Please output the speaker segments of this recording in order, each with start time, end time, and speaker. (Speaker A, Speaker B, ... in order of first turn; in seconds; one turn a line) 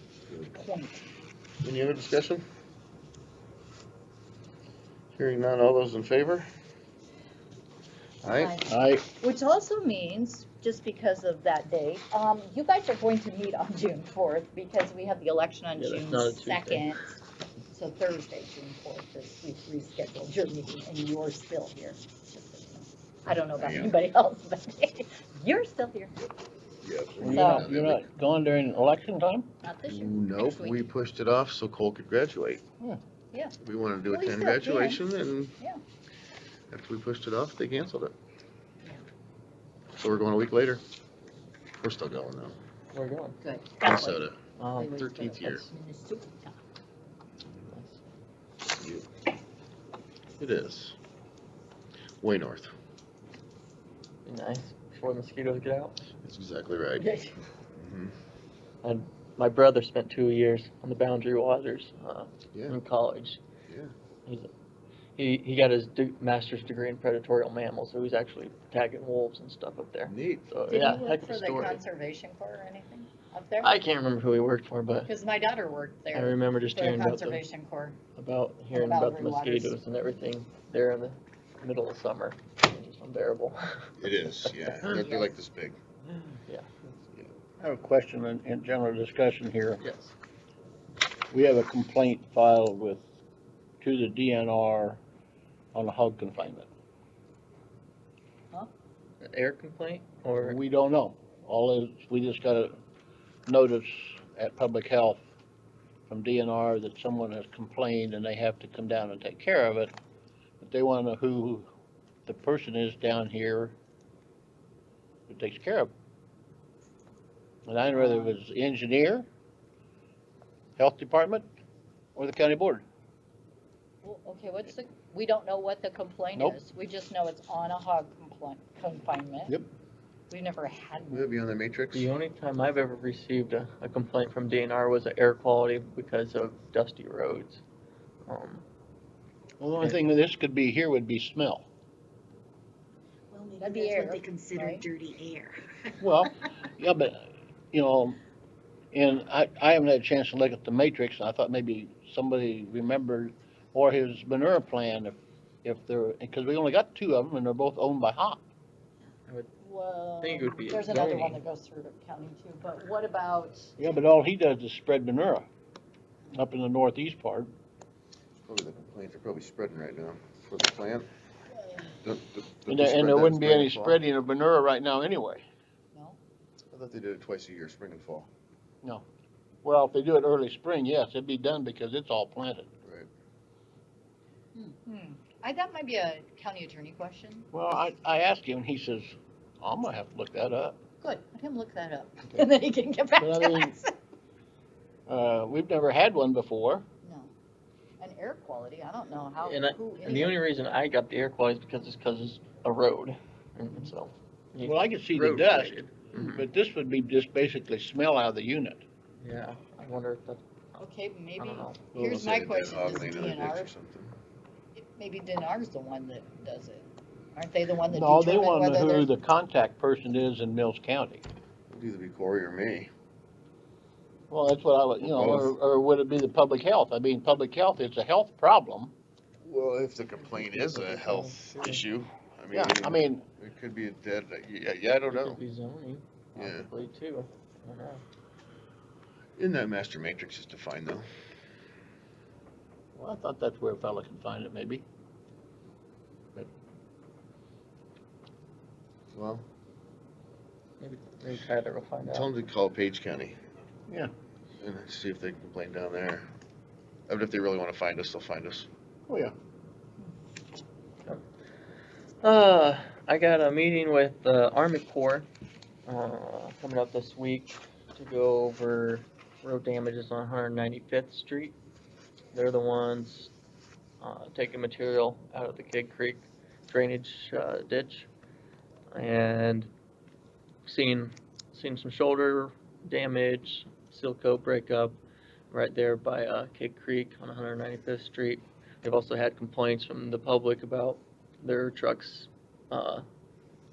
Speaker A: 0.4-1.0
Speaker B: 1.6-2.4
Speaker B: 5.1-6.5
Speaker B: 8.2-8.6
Speaker A: 8.3-17.2
Speaker C: 8.6-9.1
Speaker D: 15.8-16.9
Speaker A: 17.7-26.2
Speaker B: 23.6-23.9
Speaker B: 26.8-28.1
Speaker C: 27.2-29.5
Speaker A: 27.2-27.7
Speaker A: 29.6-30.8
Speaker B: 29.9-32.6
Speaker B: 33.6-35.5
Speaker A: 34.1-35.0
Speaker B: 36.7-38.1
Speaker B: 40.0-40.8
Speaker B: 41.8-42.6
Speaker D: 42.9-43.4
Speaker A: 43.4-46.6
Speaker B: 43.8-44.4
Speaker D: 44.6-45.2
Speaker B: 45.0-45.6
Speaker D: 47.7-48.0
Speaker B: 48.8-49.0
Speaker B: 50.4-51.0
Speaker B: 52.2-52.7
Speaker D: 54.2-56.0
Speaker B: 56.2-57.1
Speaker A: 57.0-57.3
Speaker B: 57.8-58.1
Speaker D: 58.8-63.4
Speaker B: 63.7-63.9
Speaker D: 65.2-71.8
Speaker B: 70.0-70.5
Speaker A: 70.7-73.7
Speaker D: 73.6-75.1
Speaker A: 75.0-78.0
Speaker D: 76.1-77.4
Speaker D: 78.2-83.9
Speaker A: 78.7-79.8
Speaker B: 84.0-85.8
Speaker D: 84.4-85.2
Speaker A: 84.8-85.2
Speaker D: 86.1-86.9
Speaker C: 87.6-89.8
Speaker D: 89.8-90.1
Speaker C: 91.3-93.0
Speaker C: 93.8-95.0
Speaker C: 95.7-96.7
Speaker D: 99.2-100.6
Speaker C: 100.4-102.7
Speaker C: 103.5-105.2
Speaker C: 106.1-109.9
Speaker C: 110.6-111.7
Speaker C: 112.2-113.8
Speaker C: 115.3-115.9
Speaker C: 117.7-119.3
Speaker A: 117.9-118.3
Speaker C: 120.8-121.5
Speaker C: 122.2-122.8
Speaker A: 124.0-129.6
Speaker A: 130.3-131.3
Speaker B: 131.1-132.1
Speaker D: 131.9-137.6
Speaker D: 138.3-138.6
Speaker C: 139.6-141.7
Speaker E: 143.3-146.0
Speaker A: 143.6-144.8
Speaker C: 146.0-148.2
Speaker C: 148.9-158.4
Speaker A: 159.6-163.8
Speaker D: 160.2-161.4
Speaker C: 163.8-165.5
Speaker C: 166.3-167.5
Speaker B: 168.4-171.1
Speaker A: 171.6-171.9
Speaker B: 172.0-174.0
Speaker C: 172.7-175.4
Speaker B: 176.7-178.3
Speaker C: 179.6-182.7
Speaker B: 182.8-183.1
Speaker A: 184.5-187.5
Speaker C: 187.5-190.8
Speaker A: 191.0-193.9
Speaker C: 193.2-193.8
Speaker C: 195.1-196.8
Speaker A: 197.0-197.3
Speaker A: 198.0-200.4
Speaker D: 199.4-206.4
Speaker C: 204.6-208.8
Speaker D: 209.2-210.4
Speaker A: 210.8-213.7
Speaker D: 211.4-211.8
Speaker B: 212.0-214.1
Speaker A: 214.7-219.1
Speaker C: 217.9-221.2
Speaker B: 221.7-222.9
Speaker C: 224.3-228.9
Speaker B: 225.0-225.5
Speaker B: 229.4-235.4
Speaker D: 230.2-231.8
Speaker C: 232.5-233.2
Speaker D: 235.1-238.0
Speaker B: 236.3-236.7
Speaker B: 239.4-241.0
Speaker C: 242.9-244.8
Speaker B: 249.1-249.4
Speaker D: 250.8-252.3
Speaker B: 252.0-253.3
Speaker B: 254.6-256.2
Speaker B: 257.1-258.7
Speaker C: 259.1-259.3
Speaker D: 262.2-265.3
Speaker D: 265.9-271.6
Speaker D: 272.3-273.3
Speaker D: 274.0-278.1
Speaker D: 278.9-279.7
Speaker D: 280.6-285.0
Speaker D: 285.5-293.0